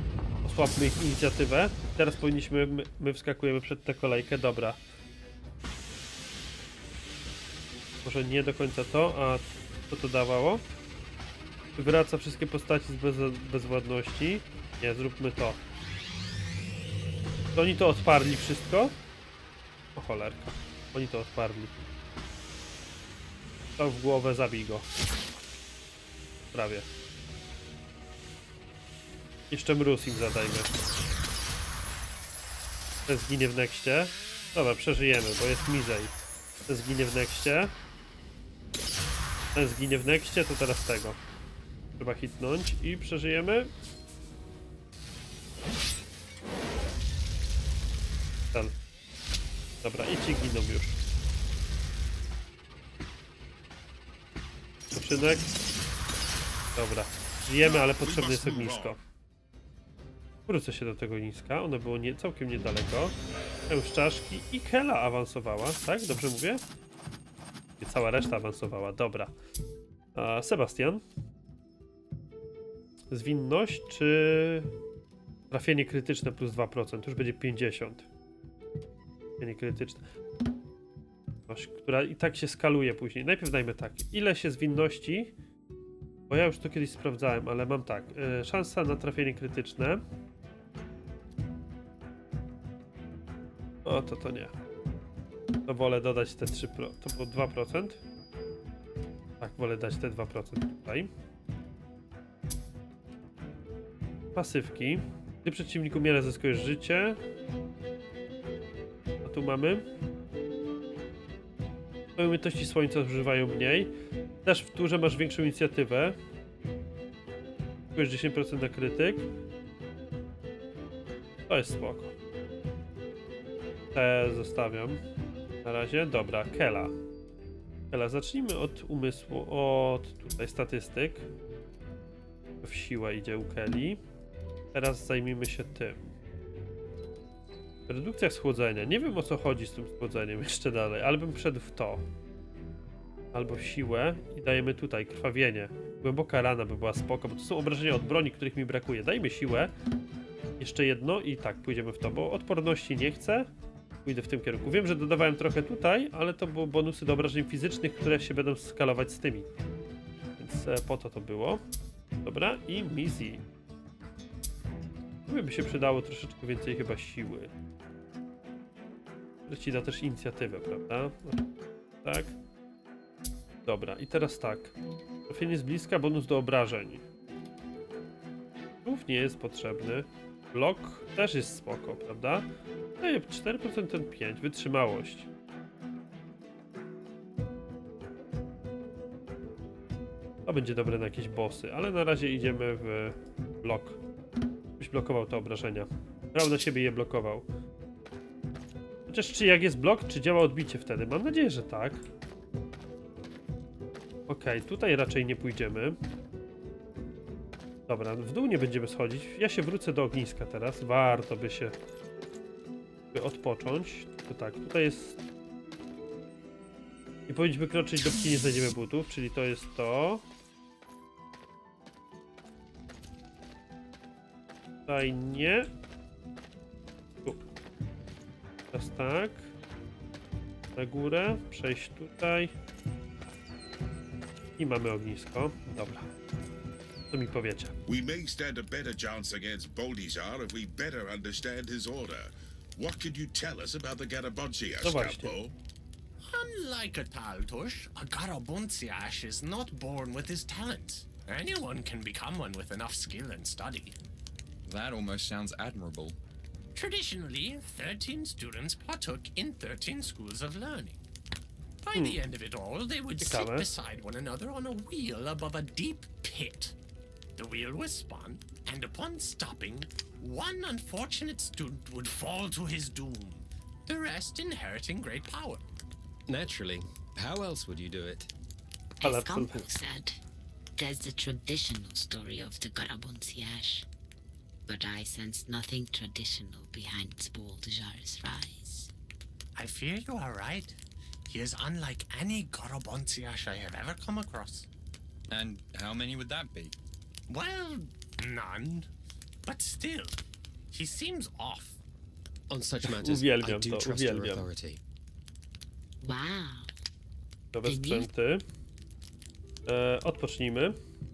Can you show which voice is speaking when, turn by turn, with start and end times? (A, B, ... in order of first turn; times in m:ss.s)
0:00.4-0:04.8 A
0:08.0-0:10.6 A
0:11.8-0:15.6 A
0:17.6-0:18.9 A
0:20.0-0:21.9 A
0:23.8-0:24.9 A
0:26.5-0:26.9 A
0:29.5-0:30.7 A
0:33.1-0:36.2 A
0:36.7-0:37.7 A
0:39.6-0:41.2 A
0:42.0-0:43.7 A
0:49.8-0:51.0 A
0:54.9-0:55.5 A
0:56.8-0:59.0 A
0:57.6-0:59.0 B
1:00.5-1:03.2 A
1:03.7-1:06.6 A
1:07.8-1:09.3 A
1:10.2-1:11.0 A
1:13.1-1:14.7 A
1:15.5-1:18.0 A
1:19.4-1:20.0 A
1:21.5-1:25.3 A
1:26.3-1:30.0 A
1:33.8-1:34.5 A
1:35.7-1:38.0 A
1:39.4-1:41.1 A
1:44.4-1:47.2 A
1:49.2-1:49.8 A
1:52.2-1:53.9 A
1:54.4-1:56.2 A
1:58.0-1:59.3 A
2:01.5-2:02.1 A
2:03.9-2:05.0 A
2:05.6-2:06.9 A
2:07.9-2:11.2 A
2:12.6-2:14.0 A
2:14.7-2:16.0 A
2:17.9-2:22.0 A
2:23.3-2:29.7 A
2:30.6-2:33.5 A
2:34.0-2:39.5 A
2:40.4-2:41.6 A
2:42.2-2:43.4 A
2:45.3-2:47.5 A
2:49.5-2:51.5 A
2:52.0-2:52.4 A
2:53.7-2:54.7 A
2:55.3-2:57.0 A
2:58.8-3:02.5 A
3:03.0-3:05.3 A
3:10.5-3:14.0 A
3:14.8-3:17.5 A
3:19.1-3:22.0 A
3:24.3-3:26.0 A
3:27.9-3:31.8 A
3:33.1-3:35.2 A
3:37.3-3:40.2 A
3:44.9-3:45.7 A
3:48.7-3:49.5 A
3:50.8-3:52.5 A
3:54.6-3:56.1 A
3:57.1-3:57.8 A
3:57.9-4:05.5 B
4:04.8-4:05.4 A
4:06.2-4:14.0 C
4:14.6-4:16.2 D
4:16.8-4:21.0 C
4:21.8-4:26.8 C
4:21.9-4:22.2 A
4:23.2-4:23.7 A
4:27.4-4:35.6 C
4:36.3-4:38.3 E
4:39.0-4:40.2 F
4:39.0-4:39.7 A
4:40.8-4:43.9 F
4:44.7-4:48.9 F
4:49.6-4:54.7 C
4:55.3-4:56.8 D
4:57.3-4:58.9 C
4:59.4-5:00.2 C
5:00.7-5:01.8 C
5:02.5-5:04.8 E
5:02.8-5:04.5 A
5:06.0-5:06.7 F
5:07.5-5:08.4 A
5:07.6-5:08.1 F
5:09.7-5:10.8 A